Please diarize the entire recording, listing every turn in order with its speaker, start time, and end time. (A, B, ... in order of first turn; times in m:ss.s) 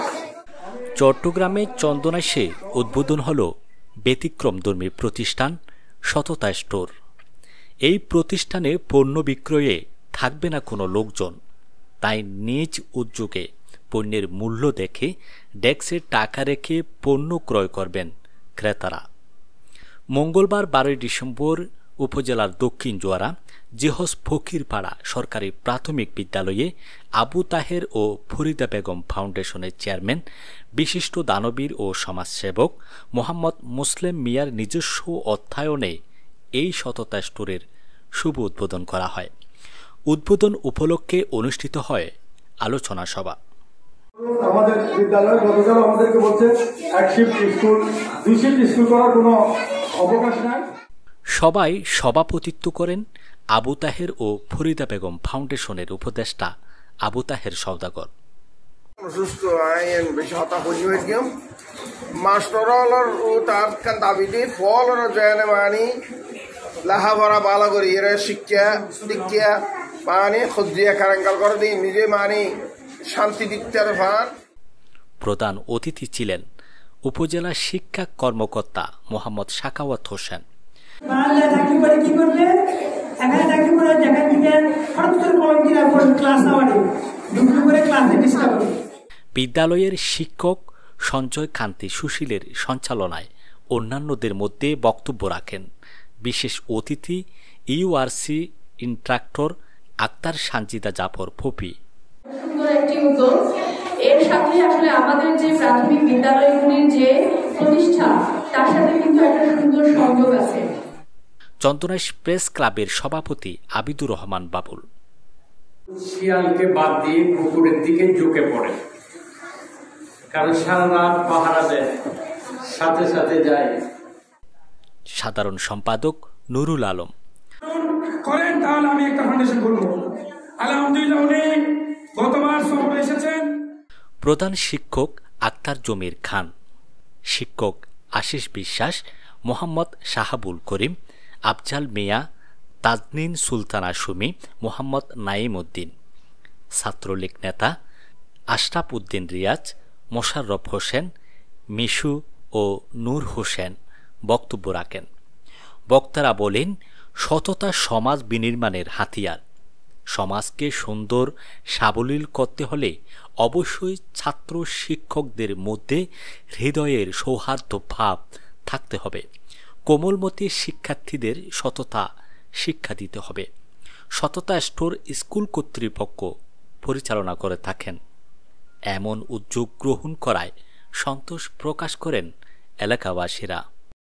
0:01.0-0:03.5 A
0:04.0-0:05.5 A
0:06.1-0:06.9 A
0:07.8-0:11.3 A
0:12.0-0:15.1 A
0:15.6-0:19.0 A
0:20.2-0:30.2 A
0:30.8-0:35.9 A
0:36.6-0:37.6 A
0:38.2-0:39.3 A
0:40.1-0:42.1 A
0:42.6-0:43.4 A
0:44.2-0:49.4 B
0:50.0-0:50.6 B
0:51.4-0:53.0 A
0:53.6-0:56.5 A
0:57.0-0:58.1 A
0:59.0-1:01.3 C
1:02.2-1:05.8 C
1:06.8-1:12.4 C
1:13.1-1:14.3 C
1:15.2-1:16.4 A
1:17.0-1:20.4 A
1:21.0-1:22.5 D
1:23.2-1:28.7 D
1:29.4-1:35.6 A
1:36.2-1:37.2 A
1:37.7-1:39.5 A
1:40.0-1:41.7 A
1:42.4-1:43.3 E
1:44.1-1:50.6 E
1:51.6-1:54.8 A
1:56.0-1:58.8 F
2:00.3-2:01.9 F
2:02.7-2:03.7 F
2:05.2-2:07.1 A
2:07.6-2:11.6 G
2:12.1-2:13.5 G
2:14.2-2:16.5 A
2:17.3-2:20.9 A
2:21.5-2:22.2 A
2:22.8-2:25.9 A
2:26.8-2:27.7 A
2:28.5-2:31.0 A
2:31.8-2:33.7 A
2:34.3-2:35.0 A
2:35.9-2:36.7 A
2:37.2-2:39.4 A
2:40.1-2:46.0 A
2:46.6-2:49.2 A
2:49.9-2:52.0 A
2:52.6-2:53.4 A
2:54.2-2:56.3 A
2:56.8-2:58.0 A
2:58.9-3:02.3 A
3:02.8-3:03.6 A